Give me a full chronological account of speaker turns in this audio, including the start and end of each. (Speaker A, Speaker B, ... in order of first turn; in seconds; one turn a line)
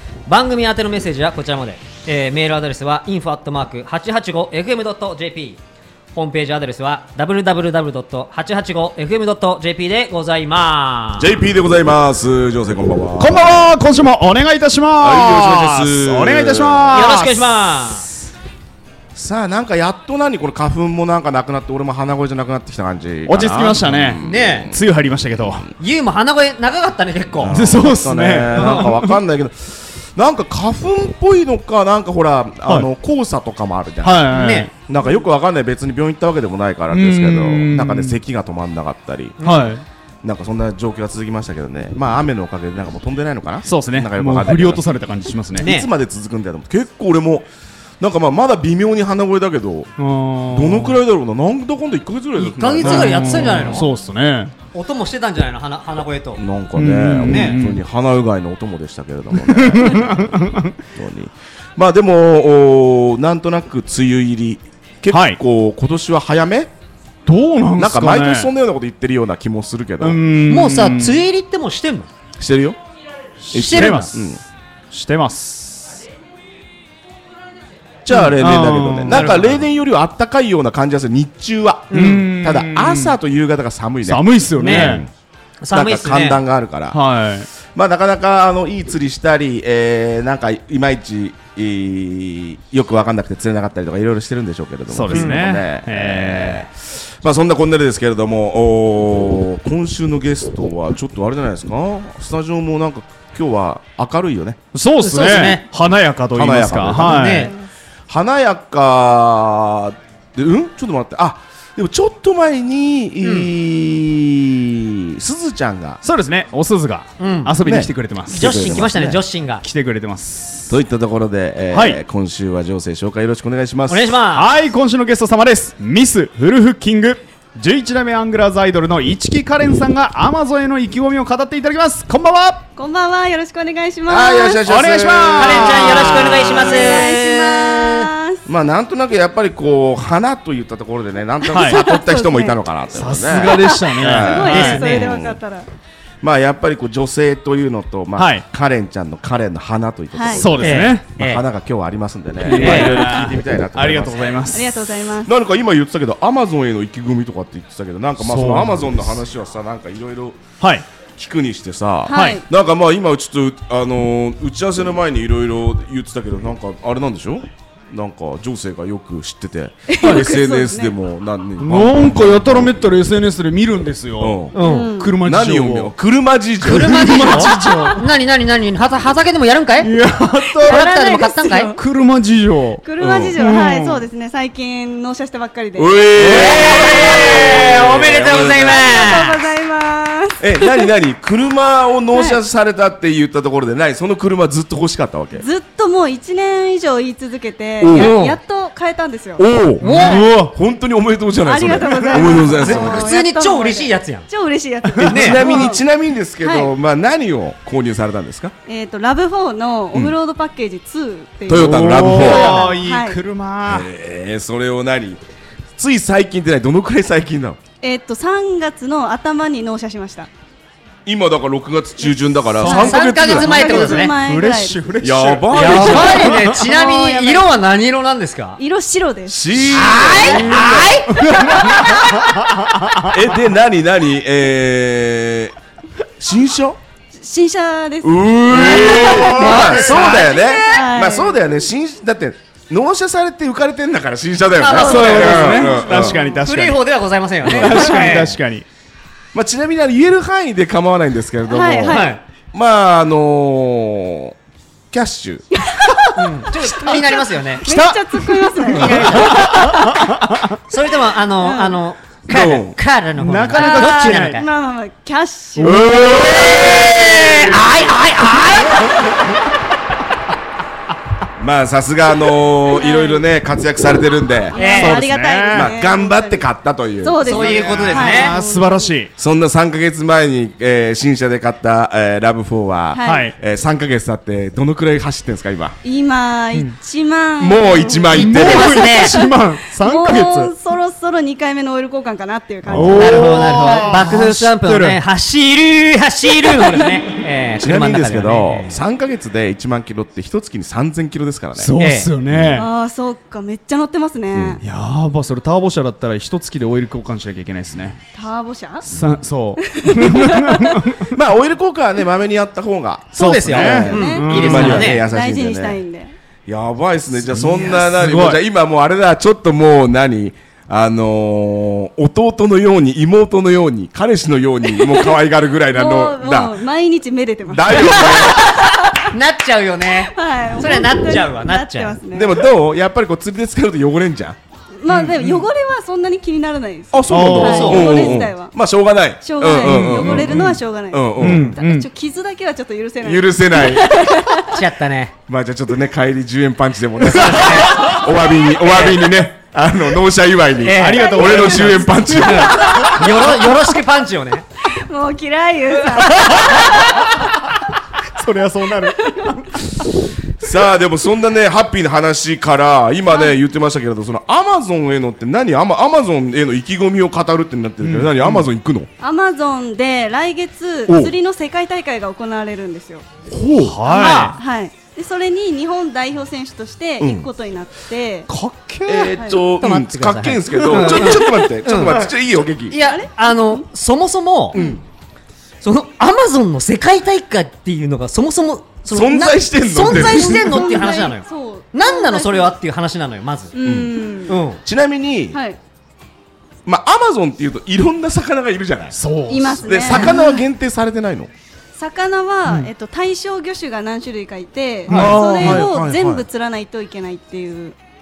Speaker A: 0.3-5.6
Speaker A: 6.1-11.3
Speaker B: 11.2-13.7
Speaker C: 13.2-17.5
Speaker B: 15.0-17.0
Speaker A: 16.9-18.1
Speaker B: 19.1-24.9
Speaker C: 23.3-25.6
Speaker A: 24.2-24.7
Speaker A: 25.8-27.6
Speaker B: 27.4-34.3
Speaker C: 27.5-29.1
Speaker A: 28.5-28.9
Speaker C: 34.0-34.7
Speaker A: 34.3-34.7
Speaker B: 34.9-39.4
Speaker C: 36.9-38.2
Speaker A: 39.4-39.7
Speaker C: 39.4-39.8
Speaker B: 40.2-44.8
Speaker C: 43.6-45.7
Speaker B: 45.5-47.5
Speaker A: 45.6-45.9
Speaker B: 48.0-49.9
Speaker C: 50.0-51.0
Speaker B: 50.5-53.8
Speaker A: 52.4-53.9
Speaker C: 52.8-54.5
Speaker A: 54.7-56.5
Speaker B: 56.4-60.4
Speaker C: 56.7-57.8
Speaker A: 57.2-57.6
Speaker C: 59.3-60.8
Speaker B: 60.9-66.7
Speaker C: 65.1-65.4
Speaker C: 67.2-68.5
Speaker B: 67.8-70.2
Speaker C: 70.0-71.2
Speaker A: 70.5-72.1
Speaker B: 72.4-72.8
Speaker C: 73.4-74.3
Speaker B: 73.5-74.4
Speaker A: 73.5-74.1
Speaker C: 74.9-76.0
Speaker B: 78.0-85.1
Speaker C: 78.1-79.3
Speaker A: 79.1-79.6
Speaker A: 81.9-82.3
Speaker C: 81.9-83.2
Speaker C: 84.0-85.0
Speaker A: 84.6-85.0
Speaker A: 85.6-86.4
Speaker B: 85.7-87.0
Speaker C: 86.9-87.5
Speaker B: 87.7-104.6
Speaker C: 94.9-96.7
Speaker A: 95.1-95.4
Speaker C: 104.7-107.5
Speaker A: 105.0-105.7
Speaker B: 106.3-107.5
Speaker A: 107.0-107.6
Speaker B: 108.1-116.0
Speaker A: 113.2-113.5
Speaker C: 116.0-120.7
Speaker A: 117.2-117.6
Speaker B: 117.6-119.0
Speaker A: 118.2-119.6
Speaker B: 120.7-124.2
Speaker C: 121.7-122.0
Speaker A: 123.9-124.5
Speaker C: 124.3-132.7
Speaker D: 132.8-134.6
Speaker B: 134.1-137.0
Speaker C: 134.6-136.8
Speaker A: 135.3-138.1
Speaker D: 136.1-138.4
Speaker B: 138.4-145.4
Speaker D: 141.4-142.6
Speaker C: 141.5-141.8
Speaker C: 142.9-144.8
Speaker D: 143.3-145.7
Speaker A: 144.2-145.1
Speaker B: 146.2-154.4
Speaker C: 148.2-148.4
Speaker D: 150.1-150.5
Speaker C: 150.3-151.1
Speaker A: 150.6-151.4
Speaker C: 152.4-154.8
Speaker A: 152.5-153.1
Speaker D: 154.5-155.3
Speaker B: 155.2-160.4
Speaker C: 158.2-159.0
Speaker C: 160.6-160.8
Speaker B: 161.2-173.0
Speaker D: 162.1-162.4
Speaker C: 162.1-162.4
Speaker D: 169.9-171.0
Speaker C: 171.6-175.9
Speaker B: 174.2-174.6
Speaker A: 174.5-174.9
Speaker D: 174.6-175.2
Speaker B: 175.2-177.6
Speaker A: 176.6-179.9
Speaker C: 176.6-178.1
Speaker C: 179.8-180.8
Speaker D: 180.4-181.8
Speaker A: 180.7-181.7
Speaker C: 181.8-182.8
Speaker D: 182.8-187.4
Speaker B: 183.0-183.4
Speaker C: 183.4-184.1
Speaker B: 185.8-188.9
Speaker A: 186.2-189.4
Speaker D: 188.3-190.9
Speaker B: 190.4-195.4
Speaker D: 192.1-192.4
Speaker D: 195.4-199.4
Speaker B: 197.8-198.2
Speaker A: 197.9-198.4
Speaker B: 199.4-203.1
Speaker A: 199.8-200.3
Speaker C: 199.8-200.5
Speaker D: 201.4-205.8
Speaker C: 201.9-202.8
Speaker A: 202.5-204.3
Speaker B: 205.0-208.5
Speaker A: 205.1-205.4
Speaker D: 206.4-206.7
Speaker D: 208.7-213.2
Speaker B: 211.5-212.7
Speaker C: 211.5-213.9
Speaker A: 212.2-212.7
Speaker B: 213.7-215.2
Speaker B: 215.8-217.6
Speaker D: 217.8-220.3
Speaker B: 221.1-224.0
Speaker D: 222.6-224.9
Speaker C: 222.6-223.0
Speaker A: 222.6-224.1
Speaker C: 223.5-226.7
Speaker B: 225.0-226.4
Speaker A: 225.5-228.6
Speaker D: 226.4-227.5
Speaker D: 228.6-230.6
Speaker B: 229.3-231.3
Speaker A: 229.7-232.2
Speaker C: 230.2-233.1
Speaker B: 233.1-235.5
Speaker B: 236.2-236.8
Speaker D: 237.1-241.4
Speaker B: 238.0-246.2
Speaker C: 238.5-240.1
Speaker A: 238.7-240.3
Speaker A: 244.6-248.4
Speaker D: 244.7-246.2
Speaker C: 244.7-246.8
Speaker C: 247.4-248.7
Speaker B: 247.4-248.2
Speaker B: 249.3-254.3
Speaker D: 251.5-252.2
Speaker A: 251.9-252.2
Speaker B: 254.9-255.4
Speaker D: 255.5-256.1
Speaker A: 256.1-257.7
Speaker D: 256.8-260.1
Speaker C: 257.6-260.4
Speaker A: 258.7-259.6
Speaker B: 258.9-259.1
Speaker A: 260.7-264.5
Speaker D: 261.4-261.8
Speaker B: 262.3-262.8
Speaker C: 263.2-264.4
Speaker D: 263.5-266.9
Speaker C: 265.6-266.5
Speaker B: 265.6-268.0
Speaker A: 266.5-269.1
Speaker C: 267.3-267.5
Speaker B: 271.4-277.9
Speaker D: 272.7-273.2
Speaker D: 274.5-276.4
Speaker A: 274.6-275.0
Speaker C: 274.6-275.7
Speaker D: 277.0-278.9
Speaker A: 277.2-278.3
Speaker C: 277.3-279.1
Speaker B: 279.2-285.8
Speaker D: 282.9-283.3
Speaker C: 283.0-283.4
Speaker D: 285.8-294.0
Speaker B: 287.4-289.1
Speaker C: 288.1-290.5
Speaker A: 288.6-289.1
Speaker B: 292.6-293.2
Speaker C: 292.7-295.0
Speaker A: 293.0-298.8
Speaker D: 296.4-296.9
Speaker B: 297.6-301.7
Speaker C: 301.6-302.7
Speaker A: 301.8-302.1
Speaker B: 302.3-302.6
Speaker D: 302.5-304.6
Speaker B: 304.3-304.6
Speaker C: 304.6-308.0
Speaker D: 308.1-308.8
Speaker C: 308.8-311.1
Speaker D: 309.7-310.8
Speaker B: 311.0-315.8
Speaker A: 313.1-315.0
Speaker C: 313.1-314.9
Speaker D: 313.9-316.1
Speaker B: 316.5-326.6
Speaker C: 317.3-318.4
Speaker D: 324.7-325.2
Speaker D: 325.7-329.1
Speaker B: 327.5-328.6
Speaker A: 329.0-332.0
Speaker D: 330.1-332.4
Speaker B: 332.1-334.4
Speaker D: 334.8-338.5
Speaker C: 334.9-335.5
Speaker B: 336.9-341.5
Speaker C: 337.1-337.9
Speaker A: 337.4-337.9
Speaker D: 339.2-344.6
Speaker C: 339.6-340.6
Speaker C: 341.2-341.9
Speaker B: 343.0-344.0
Speaker A: 344.4-345.1
Speaker B: 345.3-353.3
Speaker A: 347.1-348.0
Speaker A: 348.6-349.0
Speaker A: 350.6-351.6
Speaker C: 350.7-353.0
Speaker D: 351.1-351.8
Speaker A: 352.1-354.4
Speaker D: 354.6-357.2
Speaker C: 356.1-357.2
Speaker C: 358.0-359.8
Speaker D: 358.9-359.4
Speaker B: 360.4-368.9
Speaker C: 367.8-368.5
Speaker D: 369.0-373.0
Speaker B: 370.9-371.1
Speaker B: 373.3-373.8
Speaker C: 373.4-374.4
Speaker D: 373.9-378.3
Speaker A: 373.9-374.3
Speaker B: 377.0-377.3
Speaker C: 378.3-379.1
Speaker B: 378.8-382.8
Speaker D: 379.1-379.4
Speaker A: 379.6-382.1
Speaker C: 380.6-380.9
Speaker D: 381.0-381.4
Speaker A: 382.7-384.6
Speaker D: 382.8-383.6
Speaker B: 384.5-384.8
Speaker D: 384.5-384.8
Speaker A: 385.6-393.5
Speaker B: 388.9-390.8
Speaker D: 389.8-392.5
Speaker D: 393.5-394.4
Speaker B: 393.6-394.1
Speaker A: 394.3-394.6
Speaker B: 394.6-395.4
Speaker D: 395.3-395.6
Speaker B: 396.6-399.0
Speaker C: 398.9-400.2
Speaker D: 399.3-400.4
Speaker B: 399.6-401.3
Speaker D: 401.8-407.8
Speaker C: 404.9-405.7
Speaker B: 404.9-406.2